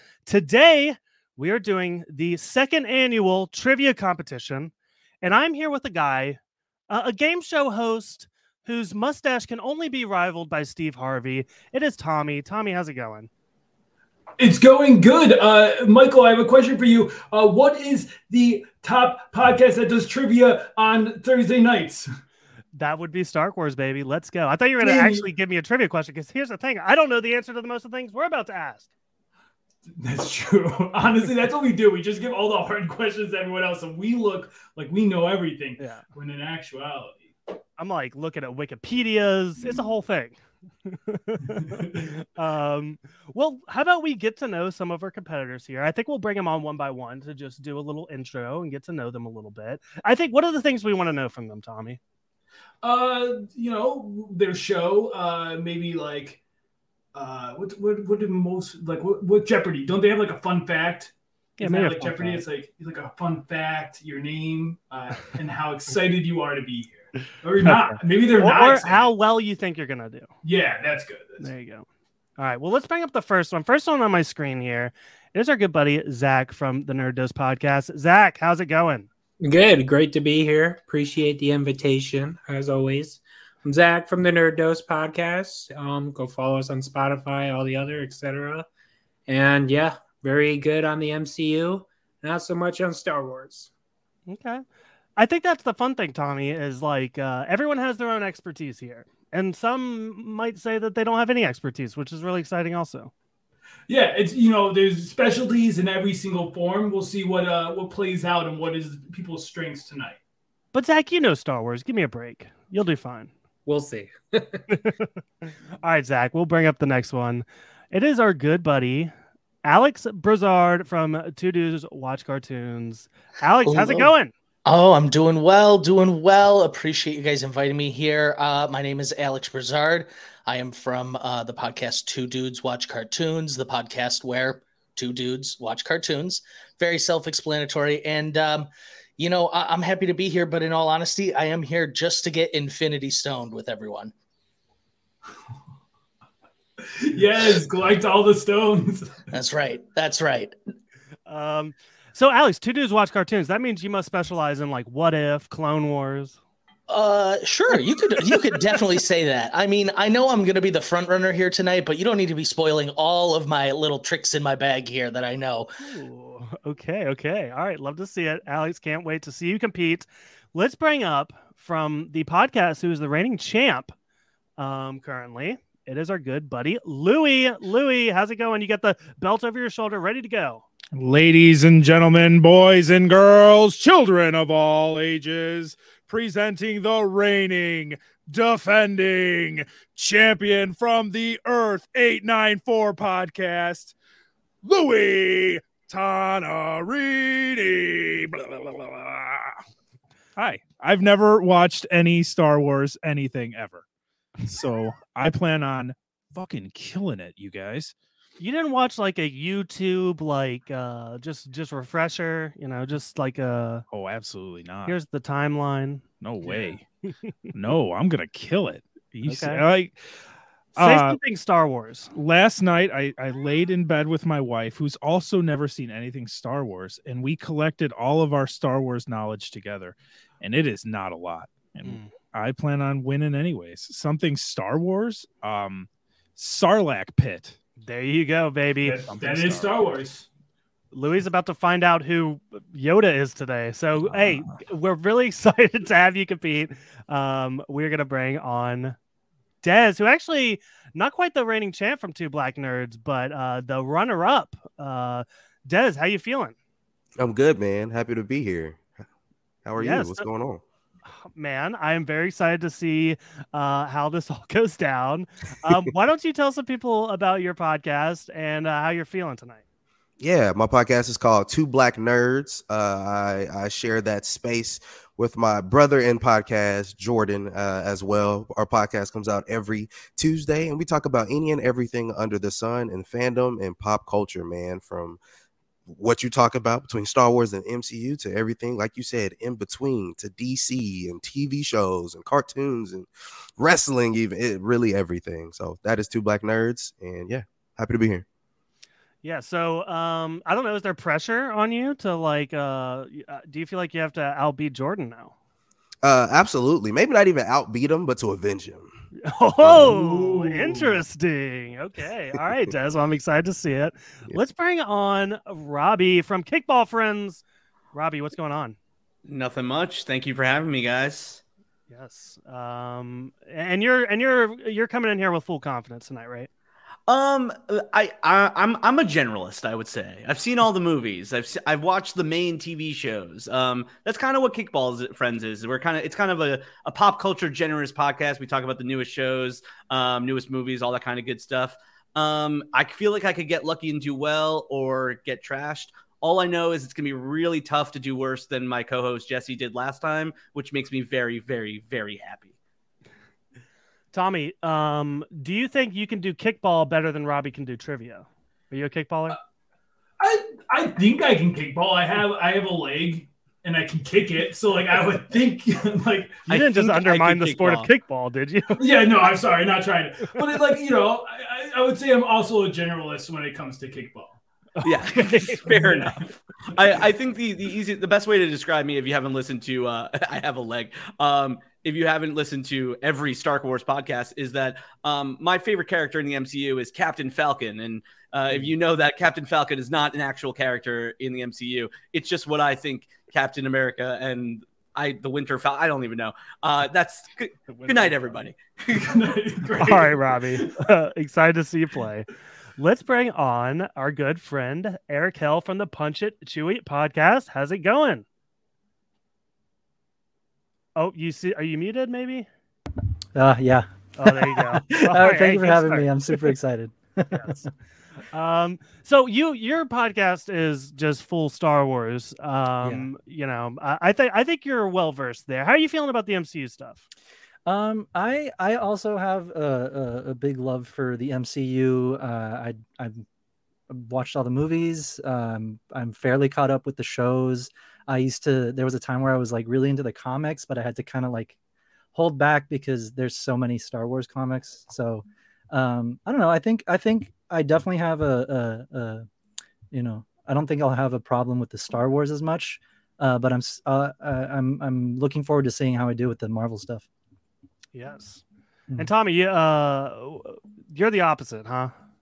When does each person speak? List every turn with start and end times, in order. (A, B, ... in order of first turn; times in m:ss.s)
0:00.3-0:06.4 A
0:06.9-0:13.3 A
0:14.4-0:22.1 B
0:22.7-0:28.9 A
0:24.8-0:25.2 B
0:29.9-0:37.3 B
0:35.8-0:36.0 A
0:37.8-0:52.0 A
0:41.6-0:42.0 B
0:52.8-0:56.4 B
0:57.1-1:09.1 B
1:01.6-1:02.4 A
1:07.6-1:10.3 A
1:10.4-1:11.5 B
1:11.4-1:11.8 A
1:12.4-1:19.1 A
1:19.4-1:28.7 C
1:29.3-1:33.7 C
1:34.3-1:34.6 A
1:35.2-1:43.1 A
1:43.9-1:50.2 B
1:50.7-1:53.3 A
1:53.6-1:54.6 C
1:54.7-1:55.1 A
1:55.8-1:59.1 A
1:59.6-2:04.3 A
2:03.6-2:04.1 D
2:04.6-2:24.1 D
2:26.8-2:29.2 B
2:29.3-2:30.6 D
2:31.3-2:36.4 A
2:36.9-2:45.7 D
2:45.8-2:53.9 A
2:54.6-3:00.6 A
3:00.9-3:13.9 E
3:14.6-3:19.6 E
3:20.4-3:23.8 E
3:24.4-3:27.9 E
3:28.4-3:33.8 A
3:33.9-3:35.0 E
3:34.8-3:36.0 A
3:36.2-3:36.8 E
3:37.5-3:40.0 E
3:39.2-3:39.6 A
3:40.8-3:41.2 E
3:40.8-3:42.1 A
3:42.2-3:57.6 E
3:51.8-3:52.1 A
3:57.8-3:59.0 A
3:58.8-4:00.2 B
3:59.0-3:59.9 E
4:00.9-4:09.0 A
4:04.0-4:04.6 E
4:09.6-4:16.5 A
4:17.2-4:18.8 F
4:19.6-4:20.6 F
4:19.8-4:20.3 A
4:21.1-4:29.6 A
4:30.2-4:45.2 F
4:45.9-4:58.2 F
4:59.2-5:05.3 A
5:06.0-5:08.9 F
5:09.2-5:17.4 A
5:09.6-5:09.9 F
5:09.8-5:11.0 B
5:17.9-5:18.8 A
5:19.2-5:21.4 G
5:21.9-5:26.5 A
5:27.1-5:52.5 G
5:54.1-5:59.4 A
6:00.2-6:06.5 B
6:06.5-6:07.9 G
6:06.5-6:08.8 A
6:08.8-6:14.4 B
6:14.8-6:15.8 A
6:14.8-6:16.2 G
6:15.7-6:16.3 B
6:16.7-6:39.1 G
6:38.9-6:40.8 B
6:39.8-6:48.2 A
6:51.0-6:52.5 A
6:53.3-6:57.7 H
6:54.2-6:56.1 A
6:58.3-7:07.0 A
7:02.8-7:03.1 H
7:07.6-7:13.2 H
7:13.9-7:21.6 H
7:22.1-7:29.3 H
7:29.9-7:37.1 H
7:37.9-7:38.4 A
7:39.0-7:41.9 A